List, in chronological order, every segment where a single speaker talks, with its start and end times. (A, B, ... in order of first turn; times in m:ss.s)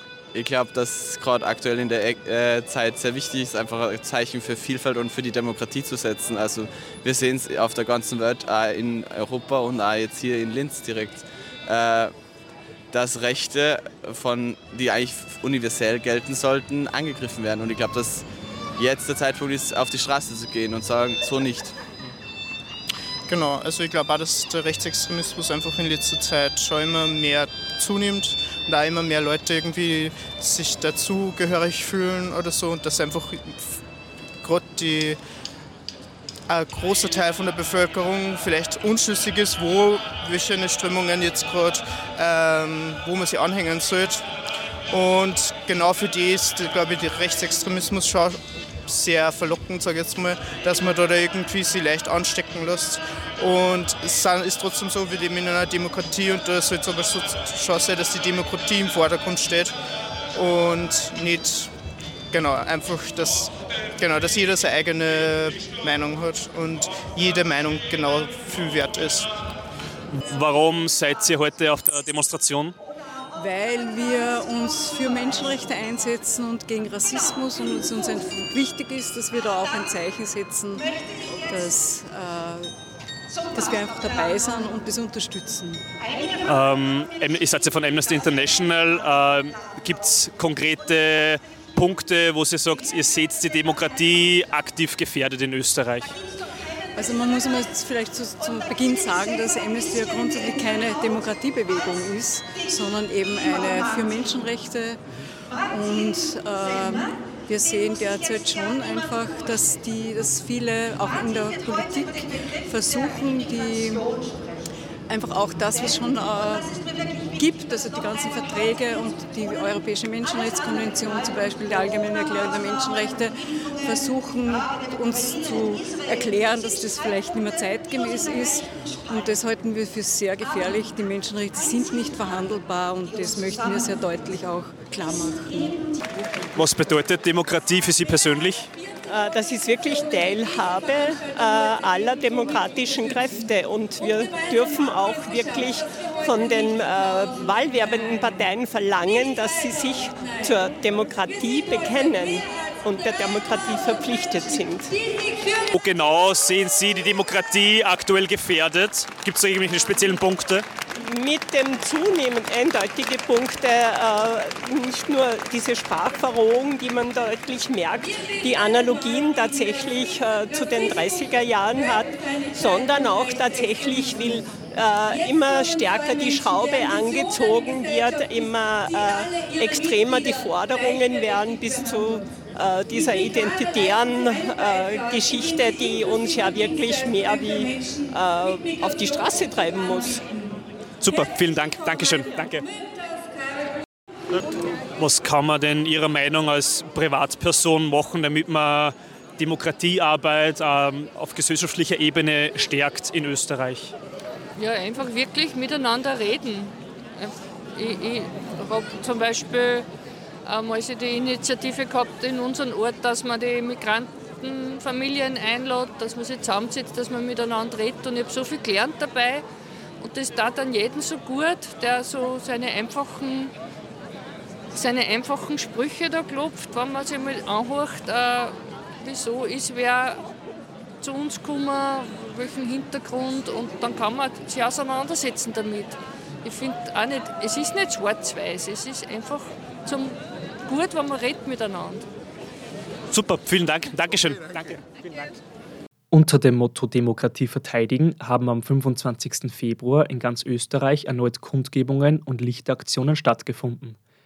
0:00.3-0:12.1 A
0:12.9-0:18.2 A
0:18.8-0:21.8 A
0:23.3-0:33.8 B
0:34.4-0:35.2 B
0:36.5-0:44.2 B
0:44.9-0:59.7 B
1:00.3-1:01.7 B
1:02.3-1:09.3 B
1:10.1-1:12.8 C
1:13.4-1:22.7 D
1:23.5-1:25.8 D
1:26.4-1:36.2 C
1:36.9-1:45.0 D
1:45.7-1:54.3 D
1:55.1-2:15.9 D
2:16.5-2:18.7 C
2:19.1-2:35.2 E
2:35.7-2:40.6 C
2:41.0-3:10.3 E
3:11.0-3:12.6 C
3:15.0-3:23.9 C
3:24.6-3:29.8 F
3:30.4-3:39.4 F
3:40.0-3:43.5 F
3:44.7-3:50.2 F
3:51.0-4:02.0 F
4:03.1-4:05.3 C
4:06.1-4:14.0 G